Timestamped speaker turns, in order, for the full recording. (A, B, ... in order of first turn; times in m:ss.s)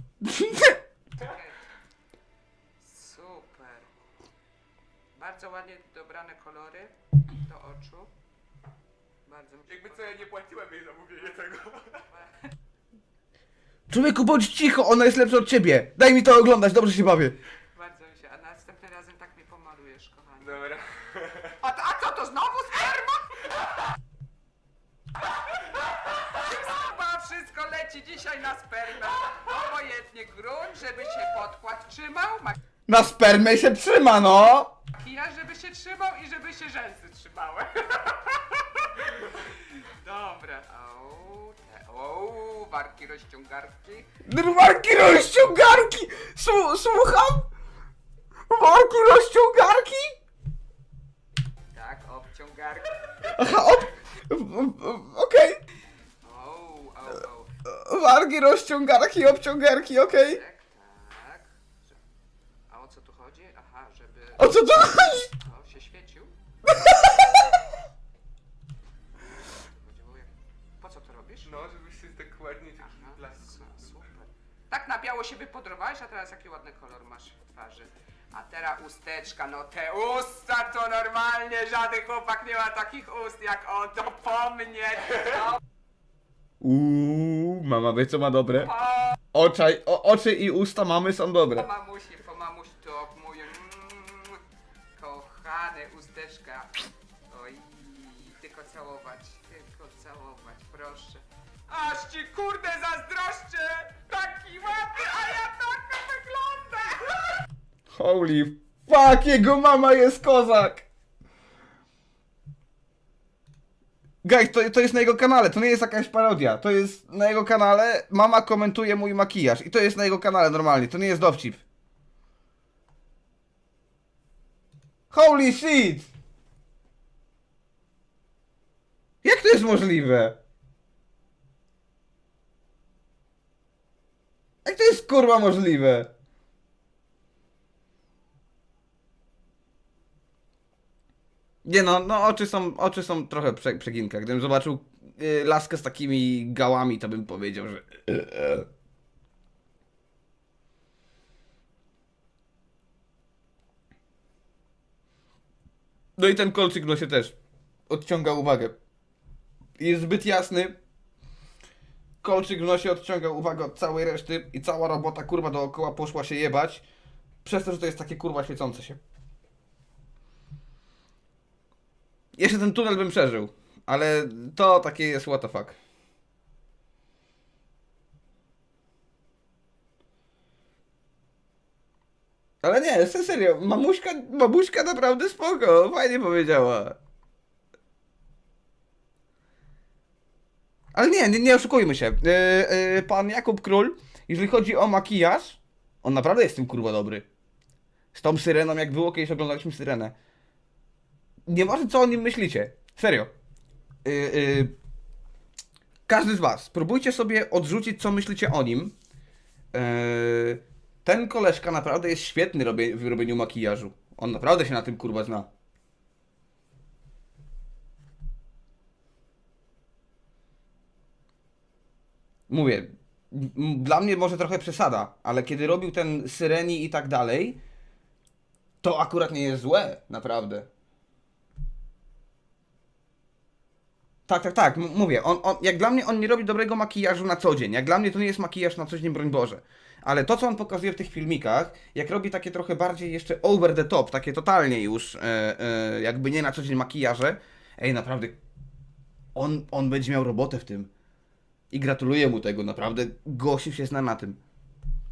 0:00.2-0:00.8 A
0:01.1-0:01.6 B
0:02.8-0:03.9 B
0:05.1-0:08.1 B
0:09.2-0:10.3 B
0:09.7-0:12.0 C
0:12.1-0:12.5 B
0:13.9-0:17.4 A
0:17.7-0:20.8 B
0:20.4-0:21.6 C
0:21.5-0:23.4 B
0:25.6-0:32.6 B
0:32.9-0:34.8 A
0:34.9-0:44.2 B
0:44.2-0:47.5 A
0:48.5-0:50.1 A
0:51.7-0:54.0 B
0:53.3-0:55.6 A
0:56.2-0:57.6 B
0:57.6-1:00.4 A
0:59.9-1:01.9 B
1:02.7-1:04.6 B
1:04.4-1:05.3 A
1:05.3-1:06.3 B
1:06.7-1:07.6 A
1:09.2-1:11.6 B
1:11.4-1:13.7 C
1:12.8-1:25.6 B
1:26.6-1:28.7 A
1:28.6-1:29.2 B
1:29.3-1:31.7 A
1:31.5-1:34.4 B
1:35.0-1:47.4 B
1:47.9-1:50.9 A
1:54.2-2:01.6 A
2:05.1-2:06.1 A
2:09.2-2:10.4 A
2:14.6-2:16.1 A
2:21.6-2:28.7 A
2:36.2-2:37.4 A
2:37.9-2:38.8 A
2:39.8-2:40.8 A
2:42.2-2:46.8 A
2:47.4-2:49.0 A
2:52.4-2:55.8 A
3:02.6-3:07.0 A
3:10.9-3:17.3 A
3:18.1-3:20.1 A
3:21.5-3:23.3 A
3:24.0-3:24.7 A
3:26.1-3:29.0 A
3:29.7-3:35.5 A
3:42.5-3:47.6 A
3:48.8-3:50.7 A
3:54.3-4:08.4 A
4:09.4-4:10.9 A
4:11.7-4:14.4 A